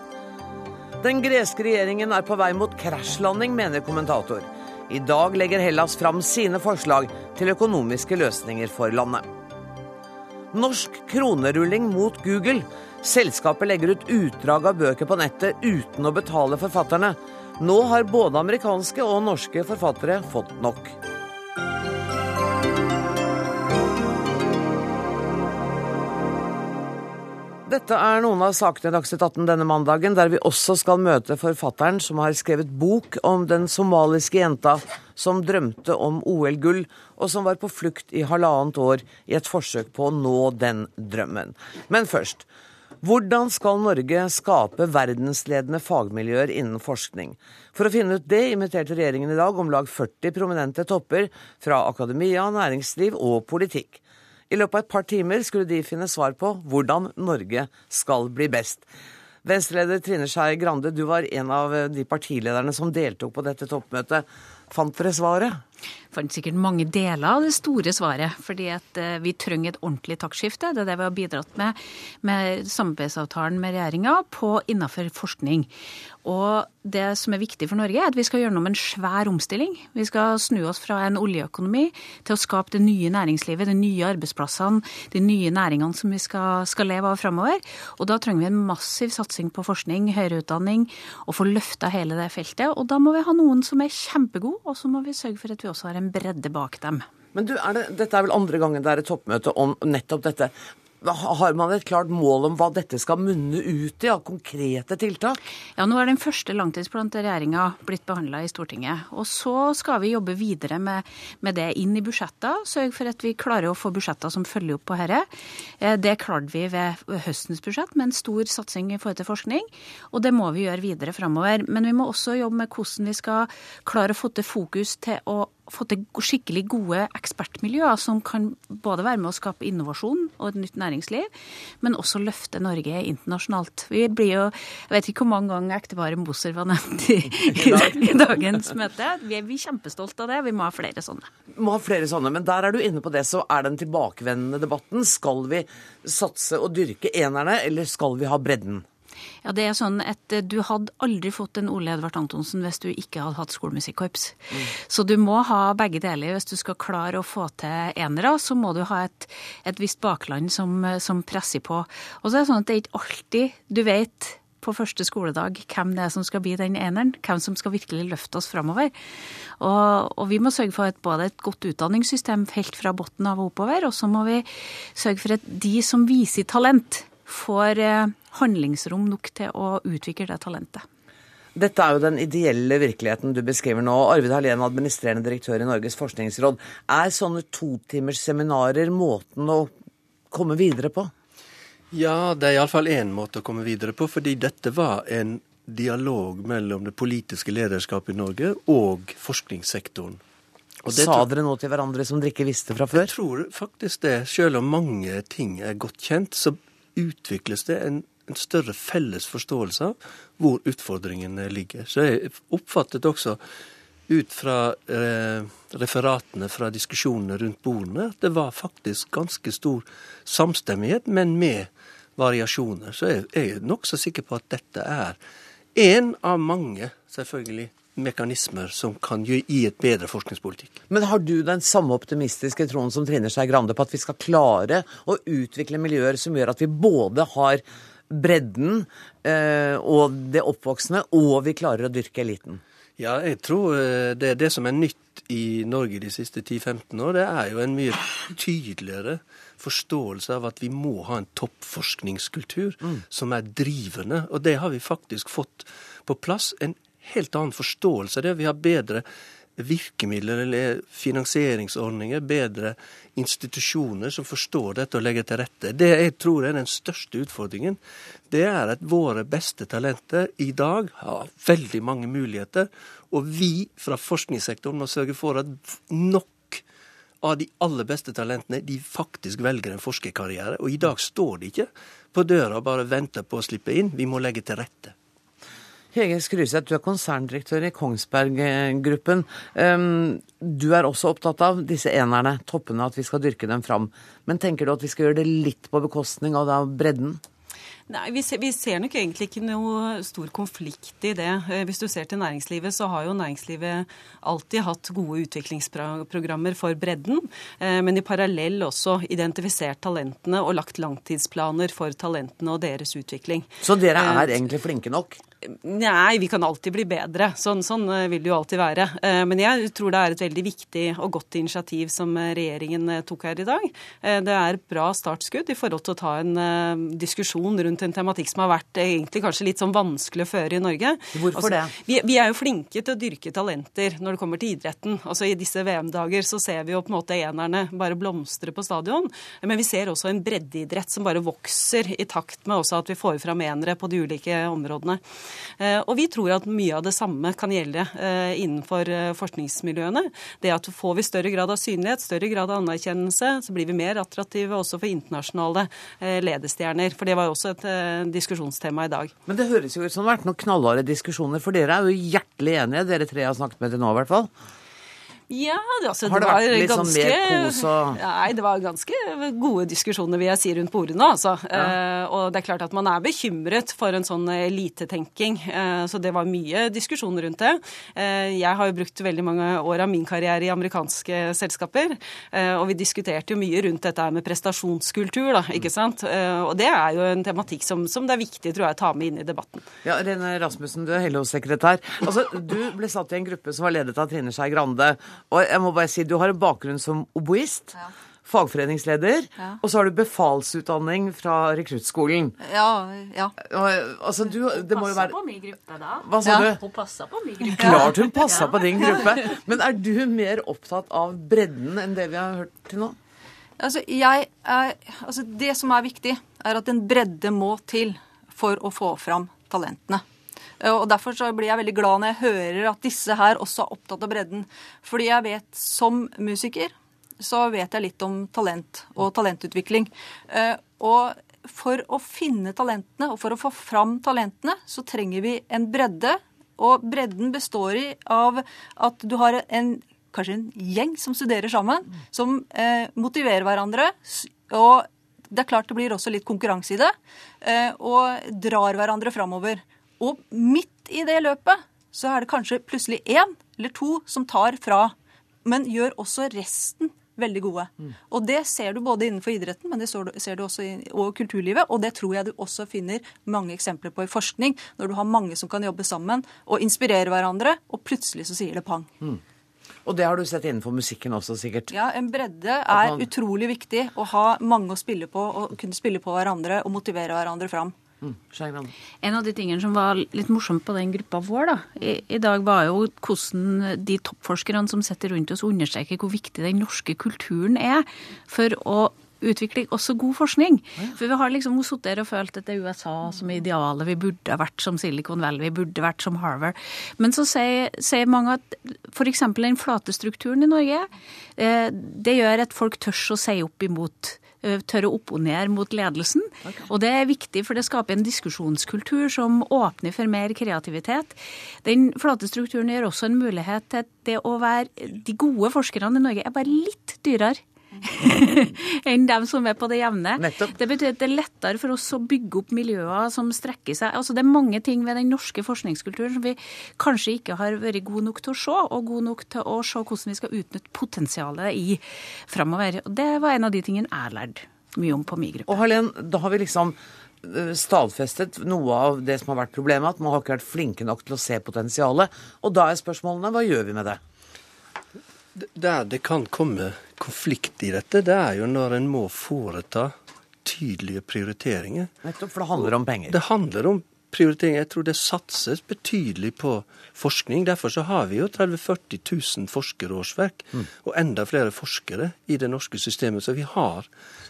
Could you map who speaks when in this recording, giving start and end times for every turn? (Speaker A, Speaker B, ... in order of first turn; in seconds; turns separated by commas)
Speaker A: 1.0-9.3, Speaker A: 10.5-20.9, Speaker A: 27.6-42.5, Speaker A: 43.0-58.9, Speaker A: 59.4-65.6, Speaker B: 66.1-75.7, Speaker B: 76.2-97.1, Speaker A: 97.3-105.4, Speaker B: 105.8-141.3, Speaker A: 137.7-138.0, Speaker A: 141.5-148.8, Speaker B: 149.4-168.9, Speaker B: 169.6-180.8, Speaker A: 181.5-189.7, Speaker A: 190.3-191.1, Speaker C: 191.9-200.2, Speaker C: 200.8-201.2, Speaker A: 200.9-203.1, Speaker C: 202.9-213.4, Speaker C: 214.1-225.2, Speaker C: 225.7-230.8, Speaker A: 230.9-242.6, Speaker C: 243.0-259.1, Speaker C: 259.6-276.6, Speaker C: 277.2-284.9, Speaker A: 285.9-297.2, Speaker D: 297.9-314.4, Speaker A: 313.6-315.2, Speaker D: 315.4-345.0, Speaker A: 331.1-331.7, Speaker D: 345.6-359.1, Speaker A: 359.3-364.3, Speaker D: 365.3-389.6, Speaker A: 366.0-368.0, Speaker A: 389.8-402.4, Speaker E: 402.4-403.3, Speaker A: 403.4-405.2, Speaker B: 404.5-408.6, Speaker A: 406.0-406.6, Speaker E: 406.2-406.5, Speaker A: 407.5-412.9, Speaker E: 413.6-420.0, Speaker E: 420.6-454.9, Speaker E: 455.4-468.9, Speaker A: 469.8-471.7, Speaker E: 471.7-477.7, Speaker A: 472.7-473.1, Speaker A: 478.0-478.7, Speaker B: 479.0-535.5, Speaker A: 520.2-520.5, Speaker A: 535.5-544.0, Speaker C: 545.4-551.9, Speaker A: 552.0-553.2, Speaker C: 552.6-563.9